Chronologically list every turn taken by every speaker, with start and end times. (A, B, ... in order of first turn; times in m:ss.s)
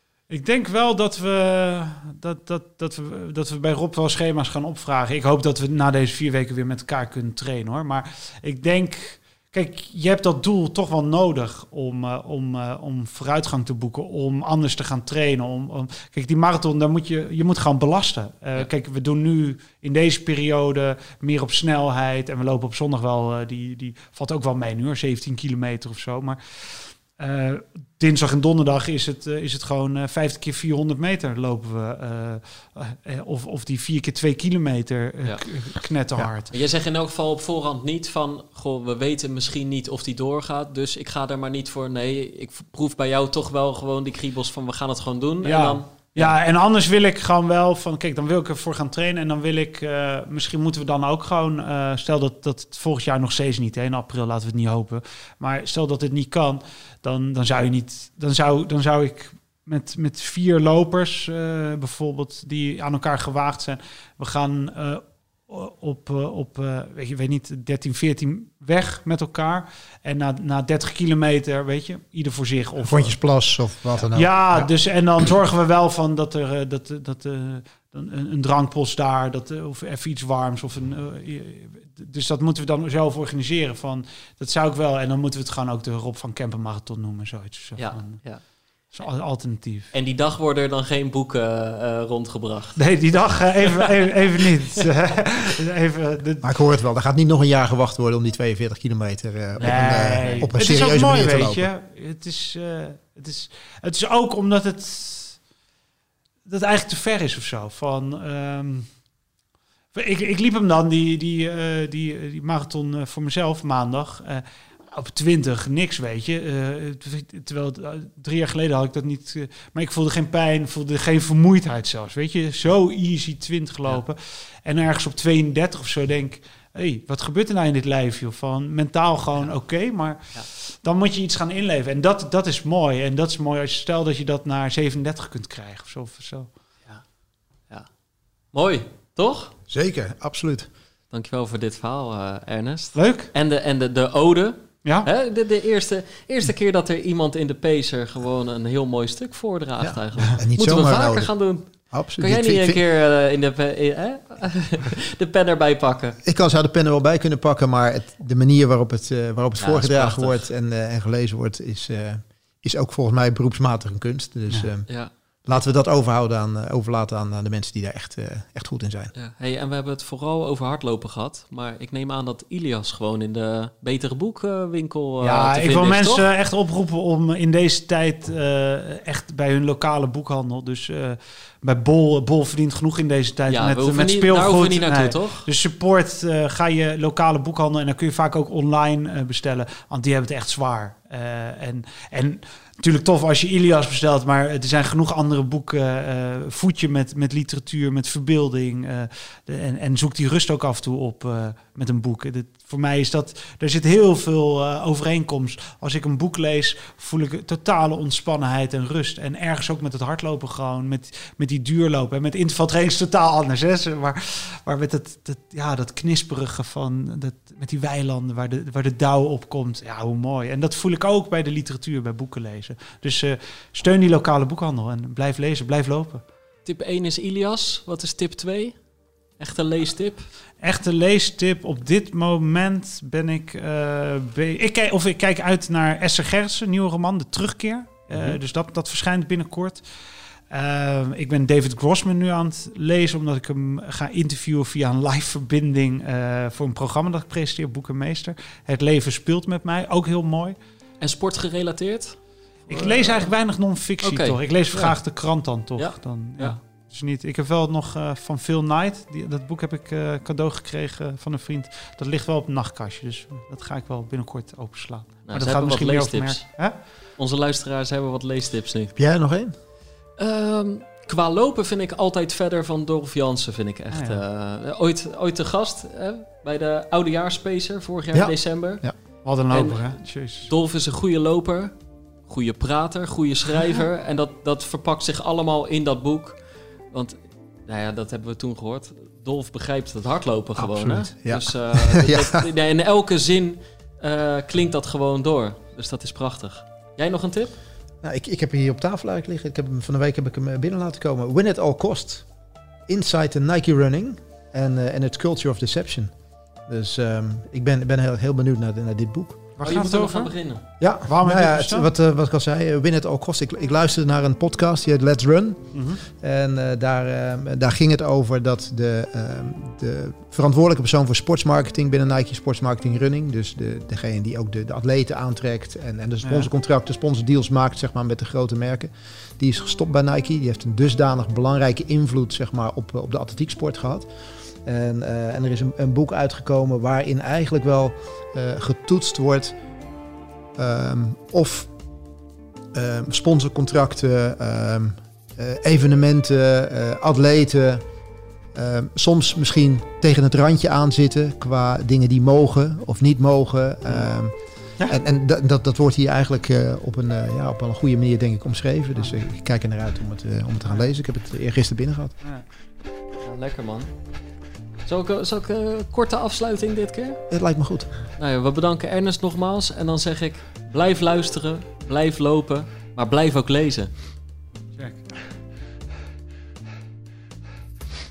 0:00.3-0:36.5 A
0:36.5-0:46.4 B
0:45.4-1:13.2 A
1:12.8-1:14.7 C
1:14.1-1:28.2 A
1:27.8-1:28.4 B
1:28.9-1:29.9 A
1:29.9-1:32.8 B
1:32.8-1:36.5 A
1:36.4-1:41.7 C
1:39.6-1:40.5 B
1:39.6-1:45.4 A
1:46.5-1:48.9 A
1:49.9-2:16.5 A
2:18.5-2:19.5 B
2:19.7-2:20.7 C
2:21.1-2:36.2 B
2:23.0-2:23.3 A
2:29.8-2:31.3 C
2:31.9-2:32.8 C
2:36.2-2:44.9 C
2:39.6-2:40.5 B
2:45.5-2:49.1 C
2:49.2-2:56.3 B
2:55.2-3:46.2 A
3:03.5-3:05.5 B
3:46.6-3:48.8 B
3:49.4-3:50.3 B
3:50.6-3:59.8 A
4:00.5-4:10.6 A
4:11.0-4:13.3 B
4:12.7-4:26.8 A
4:14.0-4:15.0 B
4:15.8-4:16.6 B
4:25.3-4:28.9 B
4:29.0-4:29.5 C
4:30.2-4:38.9 B
4:33.9-4:34.2 A
4:38.1-4:39.0 C
4:39.2-4:40.5 A
4:39.5-4:41.7 B
4:42.3-4:46.4 B
4:46.9-4:57.5 B
4:50.6-4:52.4 C
4:58.0-5:02.3 C
5:02.9-5:06.1 C
5:06.6-5:09.4 C
5:09.6-5:10.3 A
5:09.6-5:10.6 B
5:10.8-5:34.1 C
5:11.0-5:11.9 A
5:15.7-5:16.0 A
5:26.2-5:26.5 A
5:34.6-5:39.6 C
5:40.6-5:41.7 C
5:42.7-5:47.8 C
5:48.6-5:54.4 C
5:54.9-6:02.2 C
6:03.2-6:03.9 B
6:04.9-6:07.2 B
6:07.3-6:07.9 C
6:08.2-6:14.0 B
6:14.8-6:15.1 A